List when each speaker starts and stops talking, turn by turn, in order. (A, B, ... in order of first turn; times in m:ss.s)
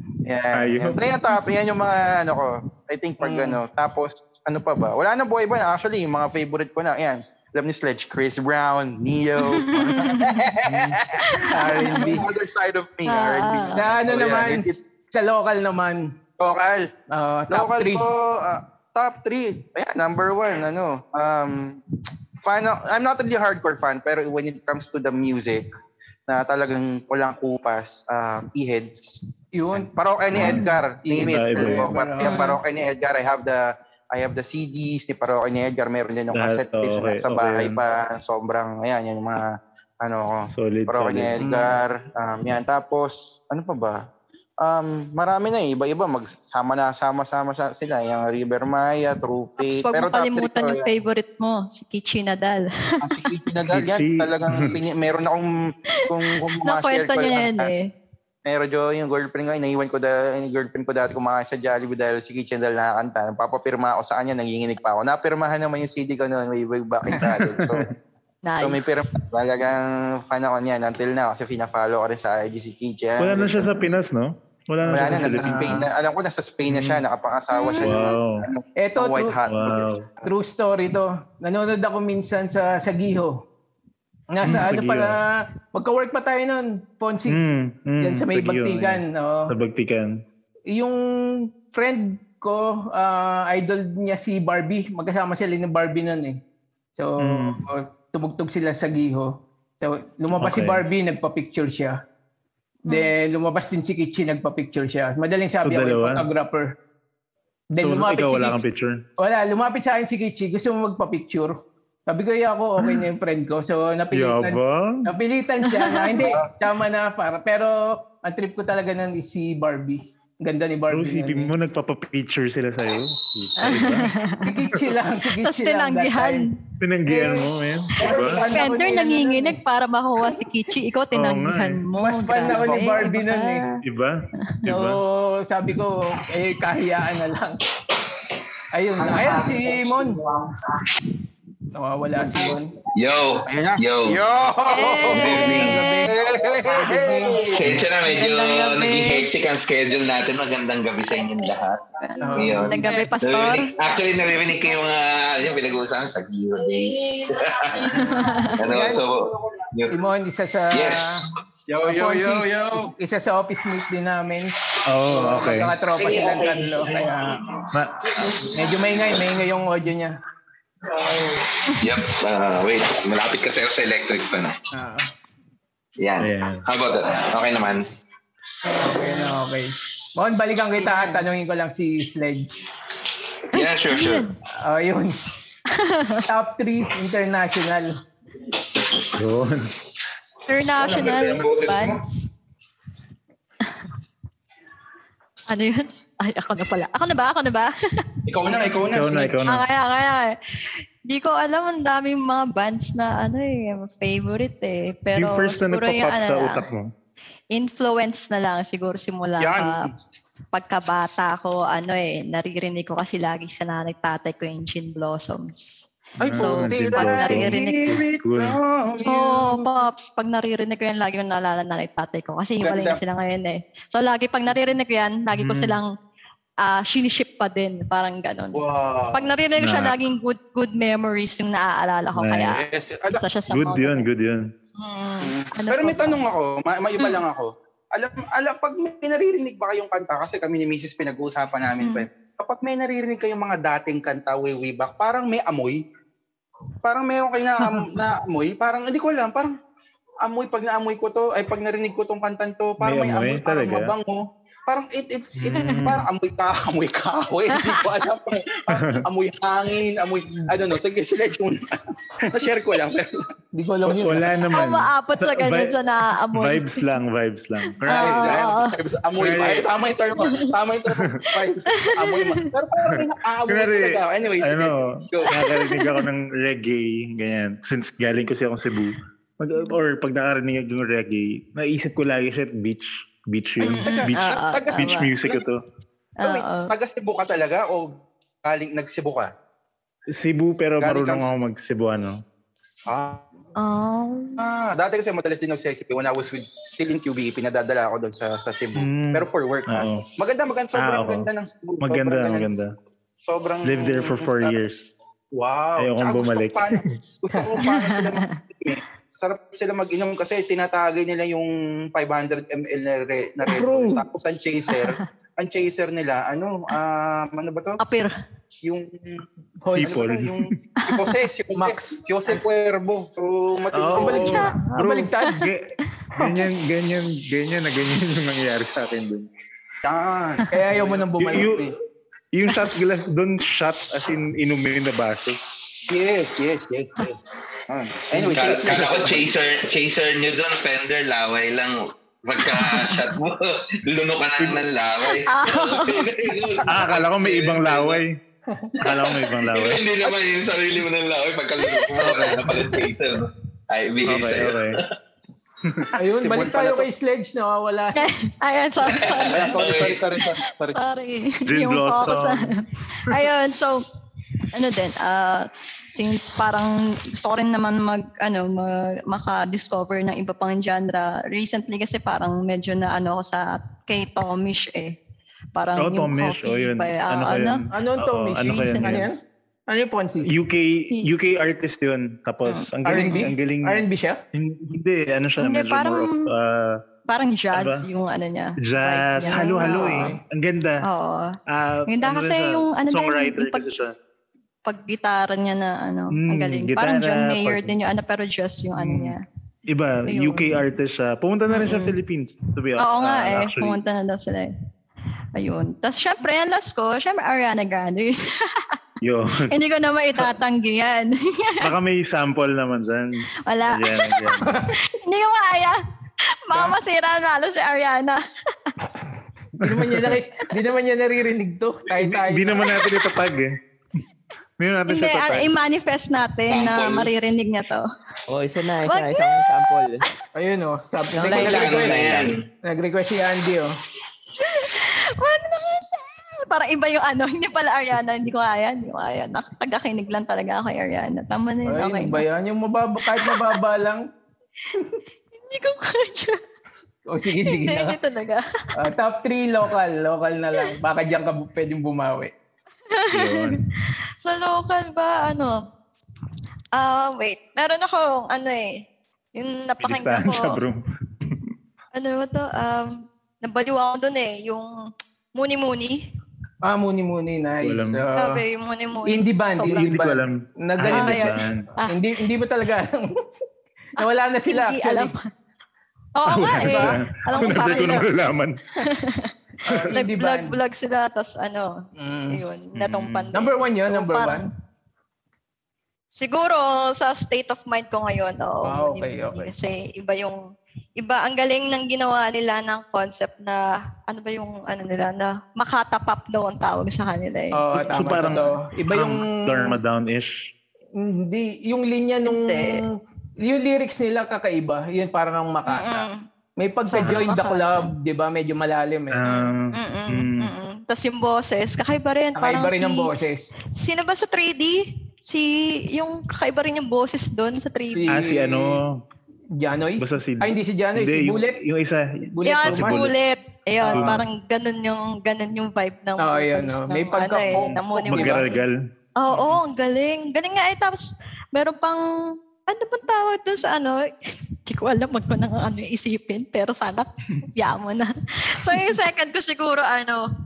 0:00.2-0:14.8 A
0:00.5-0:01.0 B
0:03.2-0:03.6 C
0:09.5-0:10.4 D
0:11.2-0:12.1 D
0:11.5-0:12.2 C
0:13.1-0:13.8 D
0:13.7-0:16.1 C
0:16.4-0:16.9 A
0:17.1-0:18.0 C
0:17.5-0:21.8 A
0:22.4-0:25.6 A
0:26.3-0:39.5 A
0:29.6-0:32.5 C
0:30.3-0:31.9 B
0:32.2-0:32.6 D
0:36.3-0:37.8 B
0:40.0-0:44.0 A
0:40.5-0:41.4 B
0:41.4-0:41.8 C
0:44.6-0:50.9 A
0:49.6-0:52.7 D
0:53.0-0:57.7 A
0:53.7-0:54.7 B
0:56.6-0:57.9 D
0:58.4-1:07.9 A
1:07.3-1:07.9 B
1:08.4-1:09.0 D
1:08.6-1:13.9 A
1:13.2-1:15.8 B
1:14.8-1:15.9 C
1:14.9-1:20.3 A
1:16.7-1:17.0 B
1:17.5-1:18.0 D
1:17.8-1:18.4 B
1:18.8-1:19.4 C
1:19.5-1:20.0 B
1:20.2-1:23.4 C
1:24.3-1:27.4 C
1:24.4-1:25.2 B
1:27.3-1:30.2 B
1:28.0-1:29.5 C
1:30.7-1:36.4 C
1:37.0-1:42.0 C
1:37.2-1:37.6 B
1:40.3-1:40.8 B
1:42.9-1:43.1 D
1:42.9-1:46.7 C
1:45.6-1:46.3 B
1:47.7-1:48.6 C
1:47.8-1:49.0 B
1:49.2-2:01.5 C
1:54.1-1:55.1 B
1:55.7-1:56.2 D
1:56.2-1:56.5 A
2:00.9-2:04.1 B
2:03.6-2:04.6 D
2:04.4-2:06.5 C
2:05.4-2:06.6 D
2:06.8-2:08.4 B
2:07.1-2:09.6 C
2:08.5-2:13.8 D
2:11.1-2:11.8 B
2:12.0-2:13.7 C
2:12.5-2:13.0 A
2:13.8-2:15.0 B
2:14.7-2:17.6 C
2:18.7-2:20.2 C
2:21.7-2:22.7 C
2:23.0-2:24.2 E
2:23.5-2:27.8 A
2:24.7-2:26.1 D
2:25.1-2:25.9 E
2:25.2-2:26.1 C
2:26.7-2:27.5 C
2:27.5-2:31.8 E
2:28.0-2:29.3 D
2:32.0-2:33.7 D
2:32.2-2:32.8 C
2:32.4-2:38.0 E
2:32.8-2:33.1 A
2:38.0-2:38.5 D
2:38.6-2:40.0 E
2:38.6-2:39.0 C
2:39.9-2:41.2 C
2:40.7-2:41.3 E
2:41.7-2:42.9 A
2:41.8-2:44.6 C
2:44.9-2:45.8 B
2:45.1-2:47.4 C
2:46.0-2:47.7 E
2:47.7-2:48.1 B
2:48.6-2:50.2 C
2:51.8-2:54.6 E
2:54.7-2:55.1 C
2:56.0-2:57.9 E
2:56.2-2:56.6 B
2:58.7-2:59.4 D
2:58.8-3:02.5 C
3:00.8-3:01.2 D
3:03.5-3:04.3 E
3:03.5-3:04.3 D
3:04.6-3:05.2 C
3:05.7-3:06.2 D
3:06.3-3:08.0 C
3:09.1-3:09.7 B
3:10.5-3:12.2 D
3:10.8-3:12.0 A
3:15.5-3:17.7 D
3:18.3-3:19.4 A
3:18.9-3:19.6 B
3:19.5-3:20.4 D
3:21.1-3:26.6 D
3:25.1-3:26.9 B
3:27.5-3:29.8 D
3:29.4-3:29.9 A
3:30.5-3:38.0 D
3:36.2-3:39.7 A
3:36.2-3:38.6 B
3:39.1-3:45.9 D
3:42.6-3:43.0 A
3:45.3-3:45.8 B
3:46.6-3:52.6 D
3:48.5-3:49.3 A
3:49.6-3:50.0 B
3:52.2-3:52.5 B
3:52.5-3:53.2 A
3:53.2-3:54.1 D
3:53.5-3:54.5 B
3:54.8-3:56.2 D
3:55.2-4:05.8 A
4:01.8-4:02.1 D
4:06.8-4:09.5 A
4:10.2-4:23.2 A
4:12.8-4:13.9 B
4:15.4-4:16.1 B
4:15.5-4:15.8 D
4:18.7-4:19.0 B
4:23.5-4:24.4 C
4:23.9-4:25.8 B
4:24.5-4:26.8 D
4:26.3-4:28.4 B
4:27.8-4:28.7 D
4:27.9-4:35.4 A
4:29.2-4:29.7 B
4:31.8-4:32.5 D
4:32.8-4:45.6 B
4:35.3-4:36.0 D
4:43.6-4:45.1 D
4:43.7-4:45.4 A
4:46.2-4:46.7 D
4:46.2-4:49.3 A
4:50.1-4:52.2 B
4:50.8-4:51.3 A
4:52.9-4:53.2 A
4:53.6-4:54.4 D
4:54.4-5:02.7 A
4:58.8-5:00.0 B
5:00.8-5:01.3 B
5:01.8-5:02.7 B
5:03.2-5:04.6 A
5:03.6-5:04.9 B
5:05.3-5:17.8 A
5:05.8-5:06.9 B
5:07.6-5:08.4 D
5:13.5-5:14.0 C
5:14.7-5:15.0 D
5:17.8-5:18.1 D
5:18.6-5:19.2 A
5:19.6-5:19.9 C
5:19.7-5:20.5 B
5:19.8-5:24.4 A
5:20.8-5:21.1 D
5:21.6-5:22.4 C
5:23.7-5:25.3 C
5:23.9-5:29.3 B
5:24.2-5:24.6 D
5:26.0-5:26.4 D
5:29.8-5:31.7 A
5:30.5-5:31.6 C
5:31.3-5:31.7 B
5:32.3-5:35.4 B
5:35.9-5:39.3 A
5:38.2-5:48.0 E
5:45.1-5:46.1 D
5:46.6-5:48.2 B
5:48.5-5:48.7 C
5:48.8-5:54.9 E
5:48.8-5:49.8 B
5:52.0-5:52.6 B
5:54.1-5:54.8 B
5:55.6-5:55.9 B
5:56.0-5:58.1 C
5:56.0-5:56.9 A
5:58.0-5:59.6 D
5:59.0-6:00.0 E
5:59.2-6:00.8 A
6:00.7-6:03.8 D
6:01.5-6:02.5 B
6:04.5-6:15.0 D
6:15.6-6:17.7 D
6:15.8-6:19.1 B
6:17.7-6:19.2 C
6:18.4-6:19.0 D
6:19.7-6:20.3 C
6:20.3-6:26.8 B
6:22.5-6:23.2 D
6:22.9-6:24.2 C
6:25.4-6:26.3 D
6:27.1-6:30.1 D
6:27.5-6:27.9 B
6:28.6-6:30.8 B
6:29.2-6:30.2 C
6:30.8-6:31.3 D
6:31.5-6:34.0 B
6:31.9-6:33.7 D
6:34.6-6:39.2 D
6:36.1-6:37.7 B
6:38.8-6:39.2 B
6:39.7-6:43.8 B
6:40.1-6:40.6 D
6:41.5-6:42.0 D
6:42.8-6:44.5 D
6:45.4-6:48.7 D
6:49.0-6:49.5 B
6:49.5-6:51.7 D
6:51.6-6:53.1 B
6:53.5-6:55.8 D
6:53.7-6:54.5 B
6:54.5-6:54.7 C
6:56.5-6:58.7 D
6:59.6-7:00.2 B
6:59.6-7:02.7 C
7:01.9-7:03.6 B
7:04.6-7:05.5 B
7:04.9-7:07.9 D
7:06.5-7:07.1 E
7:08.3-7:10.0 F
7:08.8-7:09.8 D
7:10.4-7:13.8 C
7:11.2-7:12.4 F
7:11.3-7:12.4 E
7:14.4-7:22.2 D
7:21.7-7:24.0 C
7:23.2-7:23.6 D
7:25.4-7:26.4 D
7:27.1-7:28.0 C
7:27.4-7:28.4 D
7:28.8-7:32.3 C
7:32.9-7:33.5 D
7:33.1-7:33.6 B
7:34.2-7:35.6 D
7:36.7-7:38.8 D
7:39.4-7:40.6 D
7:39.8-7:41.4 B
7:41.9-7:44.7 D
7:45.3-7:46.0 D
7:46.6-7:48.4 C
7:47.6-7:48.0 B
7:48.2-7:50.0 D
7:49.1-7:53.2 C
7:49.6-7:51.7 B
7:50.9-7:52.0 D
7:54.0-7:55.1 C
7:54.0-7:55.3 D
7:56.2-7:58.1 D
7:56.3-7:58.6 B
7:56.7-7:57.0 C
7:58.8-7:59.3 D
7:59.7-8:00.6 C
7:59.9-8:04.5 D
8:02.0-8:02.4 C
8:02.8-8:03.3 B
8:03.3-8:04.5 C
8:06.1-8:10.4 D
8:08.6-8:09.5 C
8:11.0-8:17.6 D
8:17.6-8:19.8 C
8:17.8-8:20.3 B
8:21.0-8:26.1 C
8:22.3-8:22.8 D
8:25.7-8:26.2 D
8:26.6-8:29.2 C
8:26.9-8:27.9 D
8:27.0-8:27.3 B
8:29.1-8:30.5 B
8:29.2-8:33.1 D
8:32.4-8:33.5 C
8:33.8-8:38.2 D
8:38.0-8:38.8 C
8:38.1-8:39.0 B
8:39.6-8:41.6 C
8:40.0-8:43.1 B
8:42.4-8:43.1 C
8:42.5-8:48.6 D
8:43.8-8:44.2 C
8:43.9-8:44.2 B
8:46.2-8:48.5 C
8:47.5-8:48.8 B
8:49.2-8:52.0 D
8:52.7-8:54.0 D
8:54.7-9:00.2 D